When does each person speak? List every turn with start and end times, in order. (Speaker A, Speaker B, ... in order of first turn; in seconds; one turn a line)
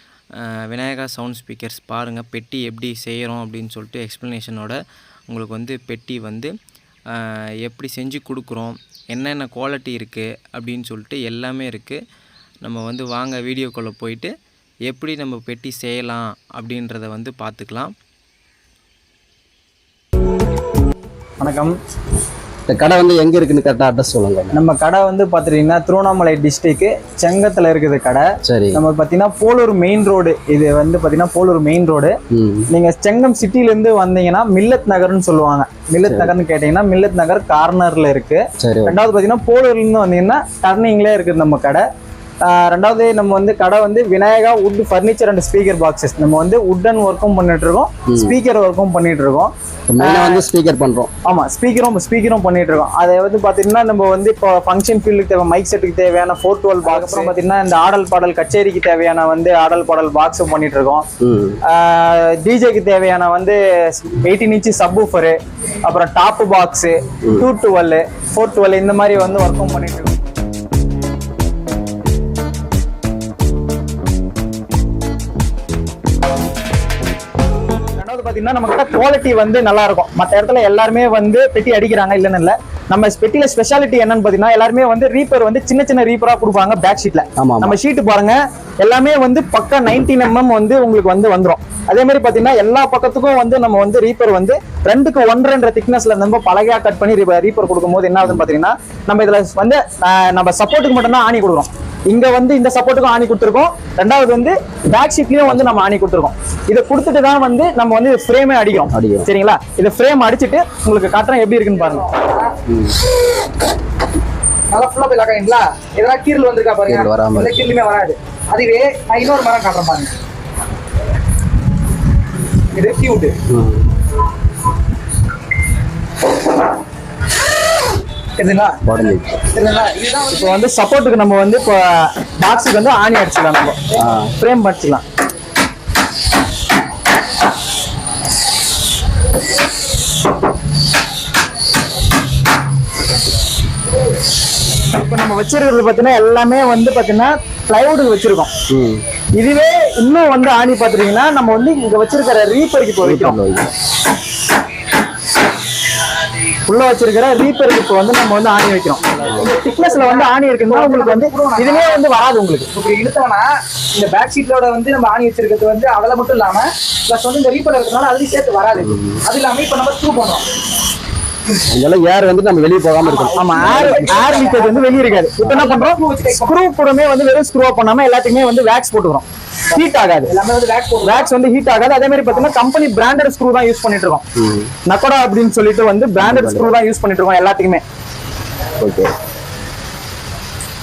Speaker A: 0.4-4.8
Speaker A: 5.3-6.5
Speaker A: 7.1-12.0
Speaker A: 12.6-14.3
Speaker A: 14.9-17.9
Speaker B: 21.4-21.7
Speaker C: 22.7-24.6
Speaker B: 24.5-32.1
Speaker C: 28.4-28.8
Speaker C: 32.3-32.6
Speaker B: 32.7-41.8
Speaker C: 36.0-36.3
Speaker C: 38.6-39.0
Speaker B: 42.4-50.5
Speaker C: 49.9-51.1
Speaker B: 51.2-61.0
Speaker D: 56.8-57.3
Speaker C: 61.2-61.6
Speaker B: 61.7-70.2
Speaker B: 78.0-112.1
Speaker C: 87.4-87.7
Speaker C: 105.5-105.8
Speaker C: 108.9-109.3
Speaker D: 111.7-112.5
Speaker D: 114.7-120.1
Speaker C: 116.8-117.7
Speaker D: 122.7-123.3
Speaker C: 123.5-123.8
Speaker D: 128.3-128.8
Speaker C: 128.9-129.4
Speaker D: 129.4-130.6
Speaker B: 130.3-133.8
Speaker B: 134.4-135.0
Speaker B: 144.9-148.5
Speaker C: 148.7-149.0
Speaker B: 149.4-153.4
Speaker C: 153.0-153.7
Speaker B: 156.7-159.0
Speaker D: 159.2-162.1
Speaker B: 159.5-162.7
Speaker D: 162.7-170.4
Speaker C: 168.8-169.2
Speaker C: 171.7-173.3
Speaker D: 173.0-176.5
Speaker B: 173.3-180.3
Speaker D: 180.2-181.3
Speaker B: 181.0-184.2
Speaker D: 182.3-182.5
Speaker C: 184.4-184.7
Speaker B: 184.8-187.8
Speaker C: 186.2-186.7
Speaker C: 188.8-189.1